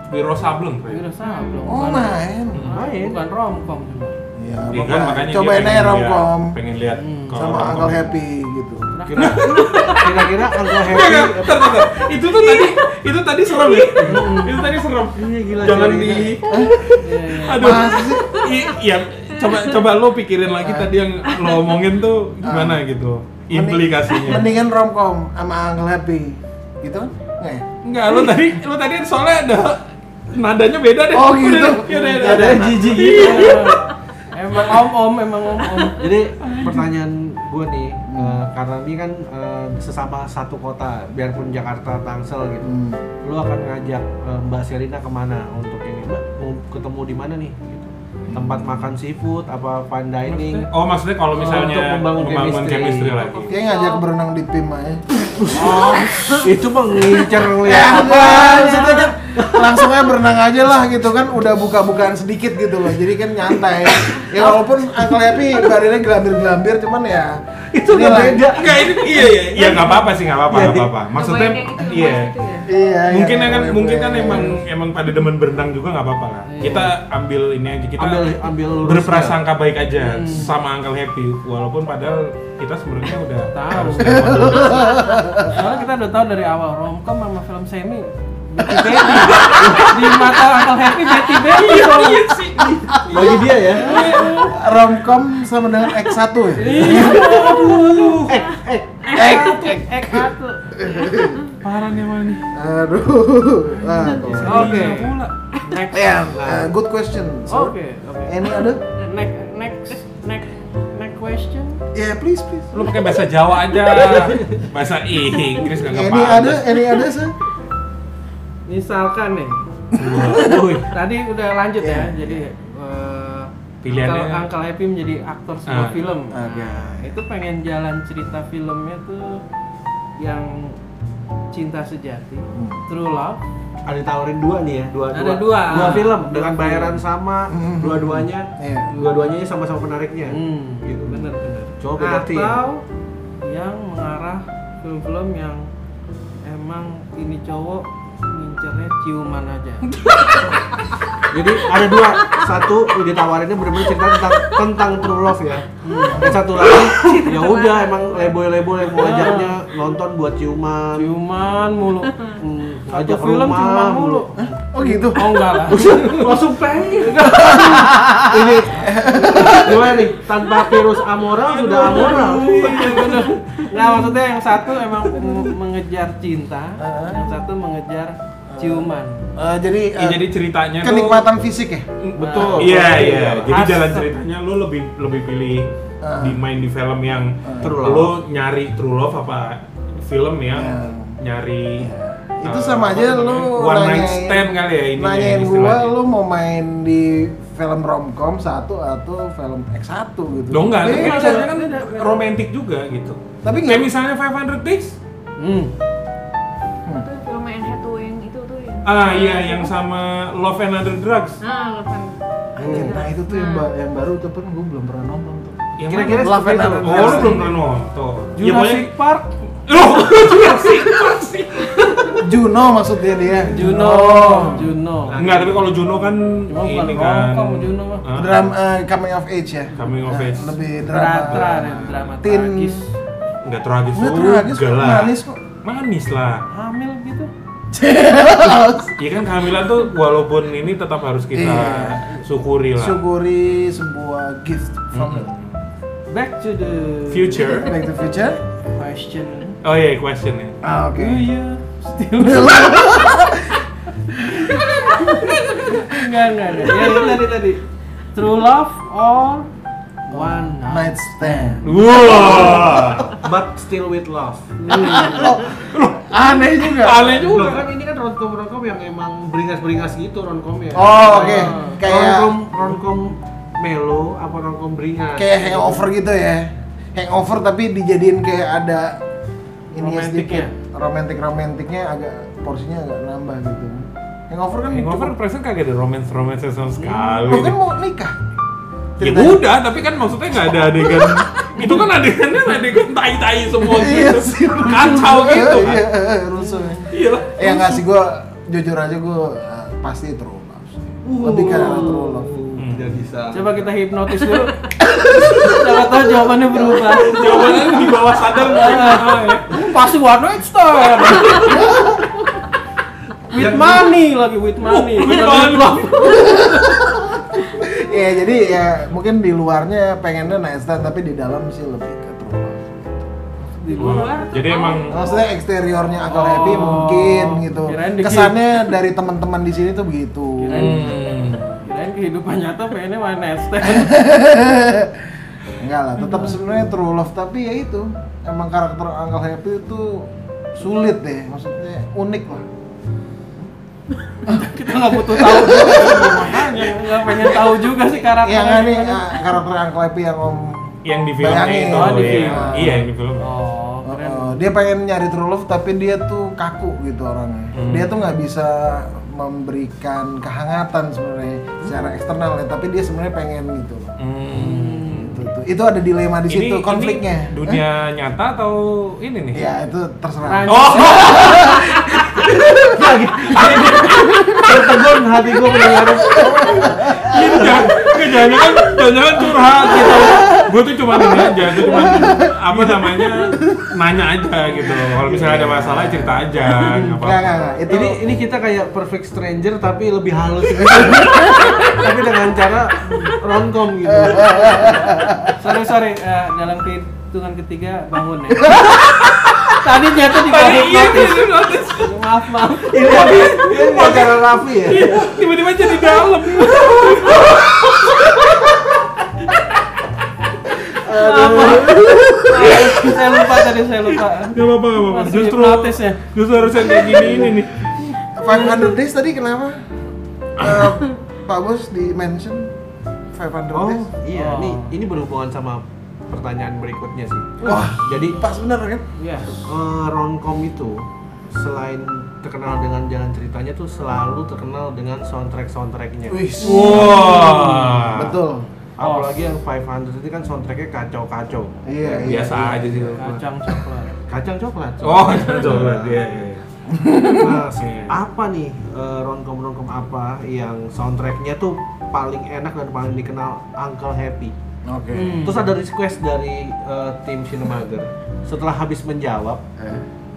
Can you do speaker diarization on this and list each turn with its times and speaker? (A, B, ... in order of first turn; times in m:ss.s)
0:00.1-0:01.1 A
0:00.9-0:04.2 B
0:01.4-0:01.6 C
0:01.6-0:02.7 D
0:02.7-0:03.3 E
0:04.4-0:06.6 D
0:04.7-0:08.2 A
0:06.9-0:07.5 B
0:07.3-0:08.9 D
0:09.0-0:09.7 B
0:09.0-0:11.8 E
0:09.2-0:24.5 A
0:12.4-0:12.8 C
0:13.7-0:13.9 C
0:14.0-0:14.4 E
0:14.0-0:14.7 B
0:15.1-0:16.4 E
0:16.5-0:16.9 D
0:17.0-0:17.9 B
0:17.5-0:18.4 D
0:20.6-0:20.9 D
0:22.4-0:22.8 D
0:23.5-0:27.6 D
0:27.8-0:33.8 A
0:31.1-0:33.5 D
0:32.3-0:33.3 E
0:33.0-0:36.7 B
0:36.0-0:50.7 E
0:38.1-0:38.4 D
0:42.6-0:43.1 D
0:48.3-0:48.7 D
0:50.3-0:53.6 A
0:51.3-0:53.4 E
0:53.3-0:54.0 C
0:53.5-0:56.5 D
0:55.4-0:59.9 E
0:55.5-0:56.2 A
0:57.5-1:08.5 D
0:58.2-0:58.9 B
1:04.2-1:04.5 E
1:07.7-1:10.9 E
1:08.5-1:12.4 A
1:11.1-1:12.7 C
1:12.6-1:14.6 D
1:13.1-1:25.0 A
1:16.5-1:16.9 B
1:18.0-1:19.4 E
1:20.0-1:20.6 B
1:23.5-1:24.8 B
1:24.0-1:25.7 D
1:25.4-1:32.4 B
1:28.6-1:29.7 D
1:29.1-1:30.3 A
1:31.2-1:34.6 A
1:32.7-1:33.5 D
1:33.0-1:34.0 E
1:33.7-1:34.6 B
1:34.2-1:37.4 D
1:36.6-1:38.3 B
1:36.6-1:38.4 A
1:38.3-1:39.3 E
1:39.1-1:41.5 D
1:39.1-1:40.9 B
1:41.6-1:42.5 A
1:42.5-1:45.1 D
1:44.0-1:45.3 A
1:44.4-1:46.2 B
1:45.9-1:48.8 D
1:46.3-1:46.7 E
1:47.5-1:51.8 B
1:51.9-1:53.0 D
1:52.7-1:56.8 A
1:55.8-1:57.4 D
1:58.7-1:59.7 B
2:00.0-2:00.6 A
2:00.1-2:00.4 D
2:00.2-2:00.9 E
2:00.8-2:09.4 B
2:01.8-2:02.5 D
2:03.8-2:04.5 A
2:05.7-2:06.1 A
2:06.3-2:07.1 D
2:10.2-2:10.8 B
2:11.5-2:13.4 B
2:12.5-2:12.9 D
2:13.9-2:22.6 E
2:15.1-2:17.0 B
2:17.5-2:18.9 D
2:19.0-2:19.4 B
2:20.3-2:22.8 B
2:23.4-2:25.7 B
2:26.4-2:29.9 B
2:30.0-2:30.5 A
2:31.3-2:41.1 E
2:35.8-2:36.3 B
2:36.1-2:36.5 D
2:37.0-2:38.2 C
2:38.9-2:39.6 B
2:41.0-2:48.4 B
2:42.4-2:44.3 E
2:44.4-2:45.6 D
2:45.7-2:54.0 E
2:47.3-2:50.0 D
2:49.2-2:49.7 B
2:51.6-2:53.2 A
2:51.6-2:59.3 B
2:56.8-2:57.3 D
2:58.5-3:01.9 D
3:00.0-3:01.3 A
3:02.0-3:11.9 A
3:02.2-3:03.5 E
3:02.2-3:04.2 B
3:06.0-3:06.4 D
3:07.4-3:07.8 D
3:07.6-3:08.2 E
3:10.5-3:11.2 D
3:11.8-3:21.5 D
3:12.4-3:15.9 A
3:20.5-3:25.0 A
3:20.8-3:22.2 B
3:23.4-3:23.9 D
3:25.4-3:25.7 B
3:26.9-3:29.7 C
3:28.8-3:31.4 A
3:31.4-3:33.7 C
3:32.6-3:33.0 E
3:32.6-3:37.5 D
3:35.8-3:38.9 A
3:35.9-3:37.4 E
3:38.4-3:39.3 B
3:39.7-3:42.2 A
3:42.2-3:44.8 D
3:43.5-3:45.2 B
3:45.0-3:45.7 E
3:45.2-3:48.5 A
3:46.5-3:48.1 B
3:48.1-3:52.9 D
3:49.7-3:50.6 A
3:50.8-3:52.9 B
3:53.4-3:56.5 A
3:54.0-3:55.4 D
3:56.5-3:57.3 B
3:57.7-3:59.0 D
3:59.0-4:03.0 A
4:01.3-4:05.3 D
4:04.9-4:05.6 A
4:06.1-4:07.9 B
4:07.1-4:07.8 A
4:07.4-4:08.4 D
4:08.7-4:09.6 B
4:09.6-4:10.6 A
4:10.6-4:11.3 D
4:11.0-4:12.8 B
4:12.2-4:13.6 D
4:14.3-4:17.6 B
4:14.9-4:15.5 C
4:18.1-4:19.5 B
4:20.1-4:22.4 B
4:20.1-4:23.1 D
4:21.6-4:23.2 A
4:22.0-4:24.6 E
4:24.6-4:25.6 B
4:24.7-4:27.3 D
4:25.7-4:27.7 A
4:27.3-4:35.9 E
4:30.7-4:32.4 D
4:31.1-4:31.8 B
4:35.2-4:39.0 D
4:39.7-4:40.5 B
4:39.7-4:45.2 D
4:44.7-4:47.6 A
4:47.2-4:48.2 D
4:49.0-4:49.5 D
4:49.0-4:55.9 A
4:50.9-4:51.7 D
4:53.6-5:02.3 D
4:56.4-4:56.9 B
4:56.9-4:57.8 A
5:01.1-5:03.7 E
5:01.3-5:02.2 B
5:02.6-5:02.9 A
5:03.3-5:12.0 B
5:04.8-5:05.5 D
5:06.5-5:06.9 D
5:06.9-5:09.5 A
5:07.2-5:08.6 E
5:13.3-5:16.4 B
5:13.3-5:13.9 E
5:14.6-5:16.8 A
5:16.0-5:23.1 D
5:23.4-5:24.3 B
5:23.8-5:25.0 A
5:23.8-5:25.3 C
5:24.9-5:31.0 D
5:26.0-5:28.4 B
5:30.4-5:31.1 B
5:30.5-5:31.6 A
5:31.6-5:34.0 B
5:33.6-5:42.5 D
5:36.0-5:36.4 B
5:44.2-5:49.2 B
5:44.3-5:46.7 D
5:48.2-5:52.9 D
5:50.8-5:53.3 A
5:51.7-5:54.4 B
5:53.8-6:03.9 D
5:57.5-5:58.0 A
6:04.0-6:05.2 A
6:04.3-6:05.1 B
6:04.9-6:07.6 D
6:06.3-6:09.4 A
6:09.3-6:12.6 D
6:10.2-6:11.6 B
6:10.5-6:12.4 A
6:12.6-6:17.8 E
6:13.4-6:14.7 D
6:13.5-6:13.9 A
6:16.0-6:17.9 D
6:17.0-6:27.4 A
6:19.4-6:23.7 D
6:24.6-6:28.0 D
6:26.6-6:27.0 B
6:27.7-6:34.9 E
6:30.6-6:31.7 D
6:33.9-6:35.5 D
6:35.4-6:38.9 B
6:38.6-6:42.0 A
6:39.5-6:43.4 B
6:42.7-6:45.0 E
6:42.7-6:48.5 A
6:50.6-6:52.5 D
6:50.8-6:56.0 B
6:52.2-6:57.7 A
6:56.6-6:57.3 B
6:58.0-6:59.6 D
7:00.4-7:02.5 D
7:00.4-7:00.8 A
7:03.1-7:03.9 D
7:03.5-7:08.2 E
7:04.1-7:04.7 B
7:07.4-7:09.4 D
7:09.0-7:09.4 B
7:09.4-7:16.2 E
7:16.1-7:18.5 D
7:16.4-7:18.2 A
7:18.8-7:22.4 E
7:18.8-7:19.1 B
7:21.6-7:23.6 D
7:22.0-7:23.2 A
7:23.0-7:24.0 B
7:24.1-7:26.0 E
7:24.8-7:26.4 A
7:26.7-7:27.4 D
7:27.2-7:34.4 E
7:27.6-7:27.9 A
7:34.7-7:35.4 D
7:34.9-7:35.5 B
7:35.2-7:39.4 E
7:39.6-7:39.8 D